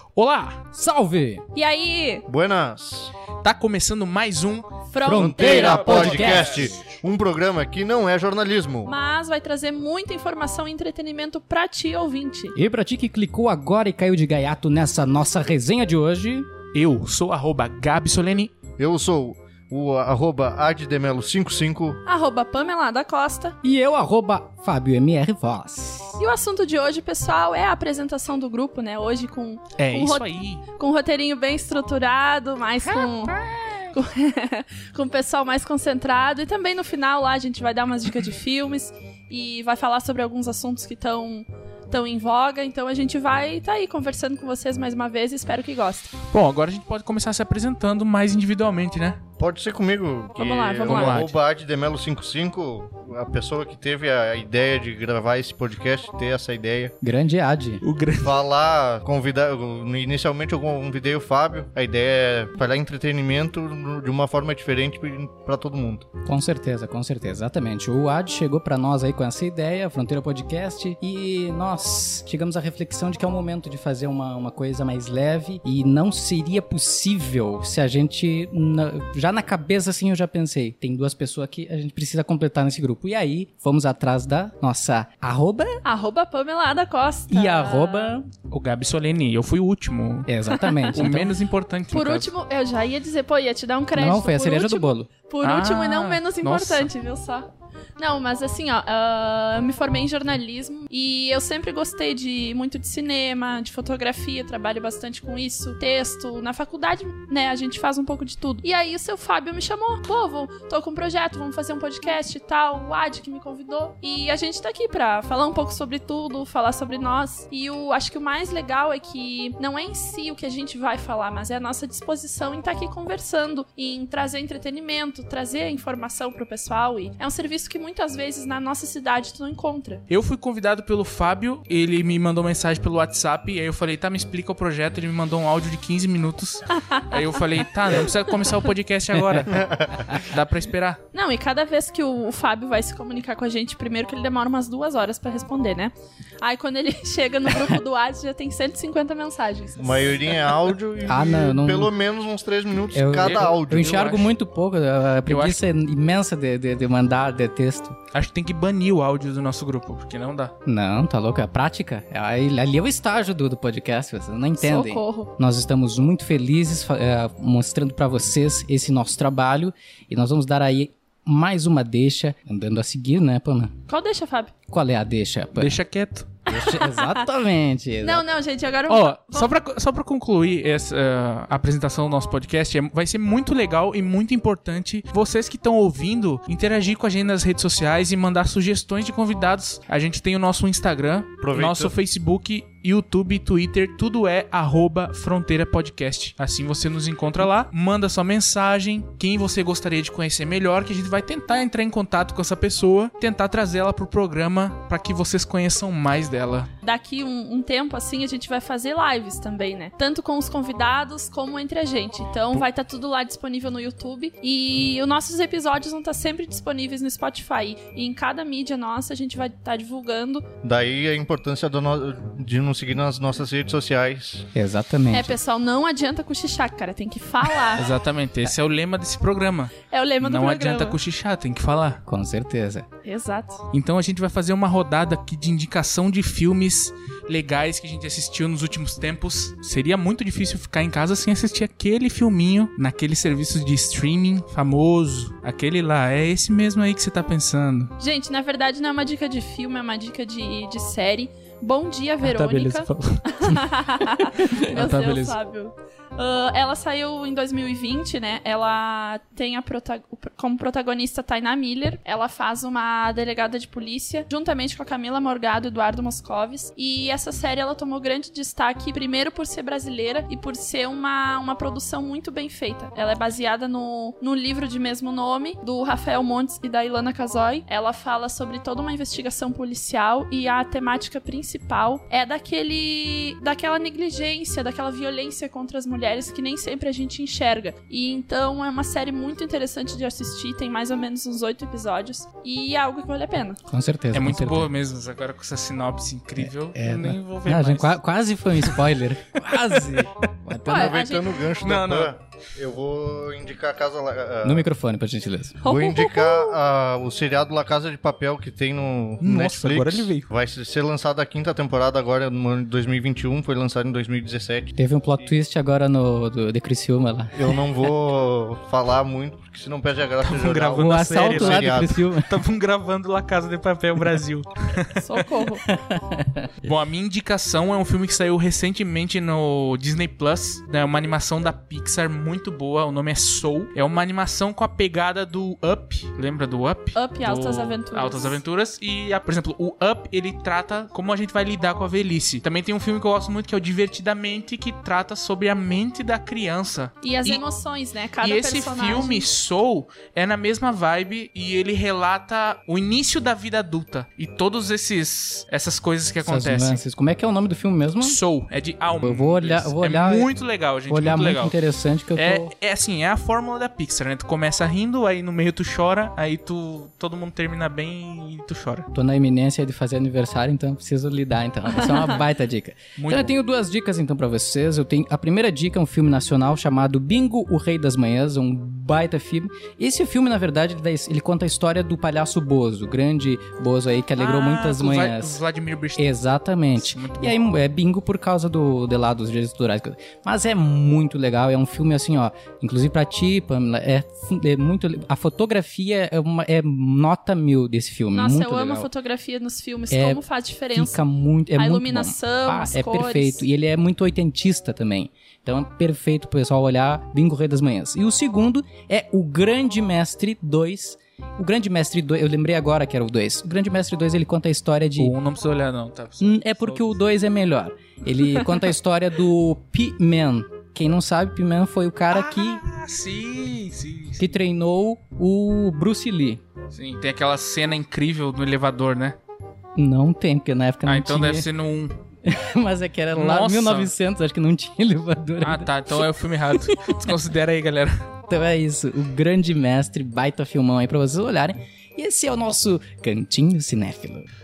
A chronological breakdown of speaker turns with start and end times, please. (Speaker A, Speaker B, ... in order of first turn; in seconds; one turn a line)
Speaker A: 0.1-0.6
Speaker B: 0.7-1.4
Speaker C: 1.5-2.2
Speaker D: 2.3-3.1
Speaker A: 3.4-4.7
Speaker C: 4.9-6.6
Speaker B: 5.0-6.8
Speaker D: 5.1-8.9
Speaker C: 8.8-12.6
Speaker B: 12.6-16.5
Speaker A: 16.7-18.5
Speaker D: 18.8-22.0
Speaker C: 22.1-23.6
Speaker B: 23.6-26.2
Speaker C: 26.2-33.4
Speaker A: 29.8-30.6
Speaker C: 33.9-46.1
Speaker A: 46.3-49.2
Speaker D: 49.4-56.9
Speaker C: 50.4-51.3
Speaker A: 50.9-51.4
Speaker B: 57.0-57.8
Speaker A: 57.8-58.4
Speaker D: 58.2-66.1
Speaker B: 66.2-85.8
Speaker C: 85.8-88.2
Speaker B: 87.3-88.3
Speaker A: 88.5-90.3
Speaker B: 90.3-91.3
Speaker C: 90.5-91.0
Speaker A: 90.9-92.3
Speaker C: 91.9-130.0
Speaker B: 94.0-95.1
Speaker A: 95.4-96.9
Speaker A: 130.1-141.0
Speaker C: 136.9-137.2
Speaker B: 139.1-139.4
Speaker D: 139.6-139.9
Speaker C: 141.1-150.4
Speaker D: 149.8-153.9
Speaker B: 151.1-151.9
Speaker B: 152.9-157.9
Speaker A: 153.2-154.3
Speaker A: 155.3-155.6
Speaker A: 158.1-160.5
Speaker B: 160.7-173.8
Speaker C: 164.6-165.3
Speaker C: 173.9-174.5
Speaker B: 174.7-175.8
Speaker A: 175.6-176.3
Speaker C: 176.5-177.3
Speaker B: 176.5-178.2
Speaker C: 178.0-179.6
Speaker A: 178.9-206.7
Speaker D: 191.4-191.9
Speaker C: 206.8-220.4
Speaker D: 220.6-224.5
Speaker B: 224.6-225.3
Speaker C: 225.1-227.8
Speaker A: 227.7-232.0
Speaker C: 229.9-231.0
Speaker B: 232.1-232.9
Speaker C: 233.0-233.6
Speaker A: 233.7-247.9
Speaker C: 248.0-293.6
Speaker A: 252.2-253.8
Speaker A: 254.4-255.4
Speaker B: 293.7-294.7
Speaker A: 294.1-298.0
Speaker B: 296.4-301.0
Speaker A: 298.6-298.9
Speaker A: 299.5-300.1
Speaker C: 300.6-301.5
Speaker D: 300.7-304.7
Speaker A: 301.6-302.2
Speaker B: 304.4-305.6
Speaker C: 305.6-306.6
Speaker D: 305.6-315.3
Speaker A: 309.2-310.3
Speaker B: 314.8-317.4
Speaker D: 317.4-321.9
Speaker A: 320.2-325.0
Speaker B: 320.8-322.3
Speaker C: 325.0-325.6
Speaker B: 325.7-326.5
Speaker A: 326.6-347.4
Speaker C: 336.9-338.4
Speaker C: 347.0-349.3
Speaker A: 348.2-356.8
Speaker B: 356.2-358.2
Speaker A: 358.0-361.6
Speaker B: 359.0-360.3
Speaker B: 360.9-362.5
Speaker A: 362.1-368.9
Speaker B: 368.9-385.4
Speaker A: 373.0-373.3
Speaker A: 384.2-386.1
Speaker B: 386.0-398.9
Speaker A: 386.7-387.4
Speaker C: 398.1-401.0
Speaker B: 399.9-415.1
Speaker C: 401.6-403.5
Speaker A: 415.0-417.0
Speaker B: 416.2-422.6
Speaker A: 422.1-424.4
Speaker B: 424.2-426.4
Speaker A: 426.7-429.2
Speaker B: 429.8-431.5
Speaker A: 430.9-431.9
Speaker B: 432.2-436.9
Speaker A: 433.1-433.9
Speaker A: 435.4-438.0
Speaker B: 438.3-444.3